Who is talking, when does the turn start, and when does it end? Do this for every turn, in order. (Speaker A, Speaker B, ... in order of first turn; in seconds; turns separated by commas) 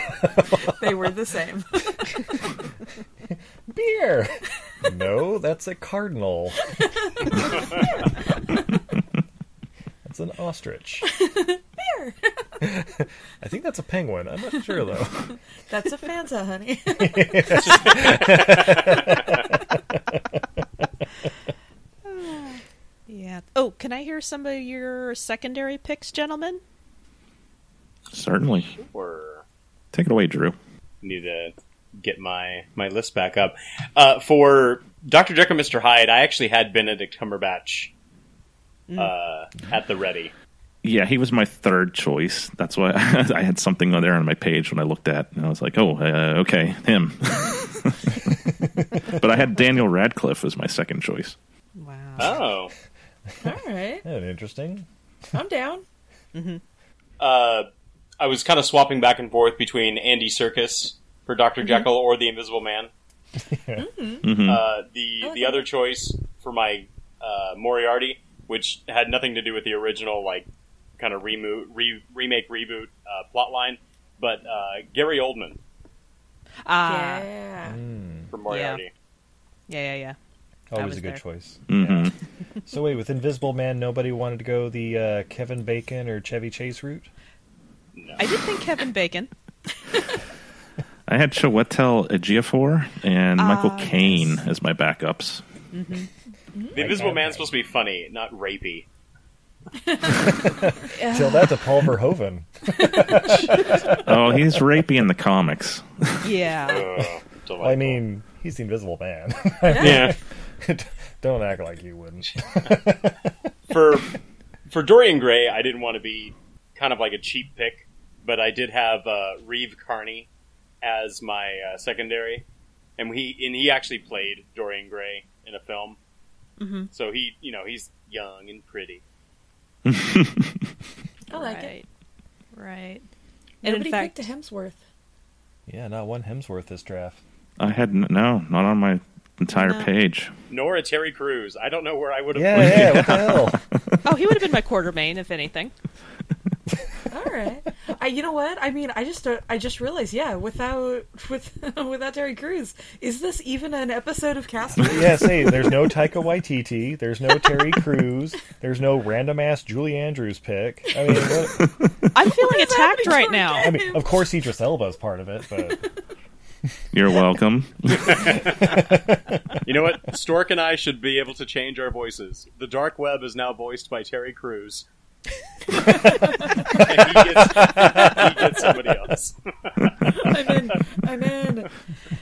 Speaker A: 0.2-1.0, Speaker B: 0.4-2.2, Speaker A: 3.7-6.6, Speaker A: 10.0-11.1, Speaker B: 11.1-12.3, Speaker A: 12.6-15.3, Speaker B: 15.7-18.0, Speaker A: 17.0-20.4, Speaker C: 22.0-26.6, Speaker D: 28.1-28.7, Speaker E: 28.6-29.4, Speaker D: 29.9-30.6, Speaker E: 31.0-37.9, Speaker E: 39.0-40.3, Speaker D: 40.8-48.3, Speaker D: 49.0-51.4, Speaker C: 51.8-52.4, Speaker E: 52.2-52.7, Speaker B: 53.4-54.0, Speaker A: 54.0-54.9, Speaker B: 55.3-55.8, Speaker C: 56.3-56.6, Speaker E: 57.2-57.7, Speaker E: 58.2-62.9, Speaker A: 63.5-63.9, Speaker B: 63.7-64.3, Speaker D: 64.2-64.6, Speaker E: 64.4-70.5, Speaker B: 65.2-65.7, Speaker E: 71.0-75.6, Speaker C: 76.7-77.3, Speaker B: 76.8-77.8, Speaker A: 77.7-78.3, Speaker E: 78.3-78.9, Speaker C: 78.5-78.8, Speaker C: 79.7-80.2, Speaker A: 80.7-82.1, Speaker C: 80.7-81.2, Speaker D: 81.7-82.1, Speaker E: 81.8-82.0, Speaker A: 82.7-87.1, Speaker E: 87.9-88.3, Speaker C: 88.2-89.3, Speaker D: 91.1-95.4, Speaker C: 93.4-94.3, Speaker C: 95.7-96.1, Speaker A: 96.7-97.5, Speaker E: 96.7-98.9, Speaker B: 99.9-100.7, Speaker A: 100.4-104.7, Speaker C: 100.9-101.6, Speaker D: 103.9-106.3, Speaker C: 106.2-106.9, Speaker E: 106.6-108.0, Speaker A: 107.6-113.3, Speaker B: 109.7-110.1, Speaker E: 109.7-110.2, Speaker E: 113.7-114.1, Speaker E: 114.7-120.3, Speaker E: 120.8-122.4, Speaker E: 123.0-126.0, Speaker C: 126.6-126.9, Speaker E: 126.9-129.0, Speaker D: 129.8-130.6, Speaker B: 131.3-131.7, Speaker C: 131.3-131.8, Speaker C: 132.5-133.1, Speaker C: 133.6-134.3, Speaker B: 133.6-134.8, Speaker A: 135.7-137.2, Speaker D: 137.6-140.3, Speaker C: 139.5-139.9, Speaker E: 140.5-143.2, Speaker A: 142.3-143.6, Speaker D: 142.5-143.9, Speaker C: 144.0-145.7, Speaker B: 147.1-155.9, Speaker A: 154.8-161.9, Speaker C: 162.1-163.8, Speaker B: 162.2-164.2, Speaker A: 163.6-165.8, Speaker D: 166.9-168.5, Speaker E: 168.0-168.8, Speaker A: 168.6-169.4, Speaker E: 169.6-174.8, Speaker E: 176.6-180.2, Speaker A: 176.7-178.3, Speaker B: 180.1-181.7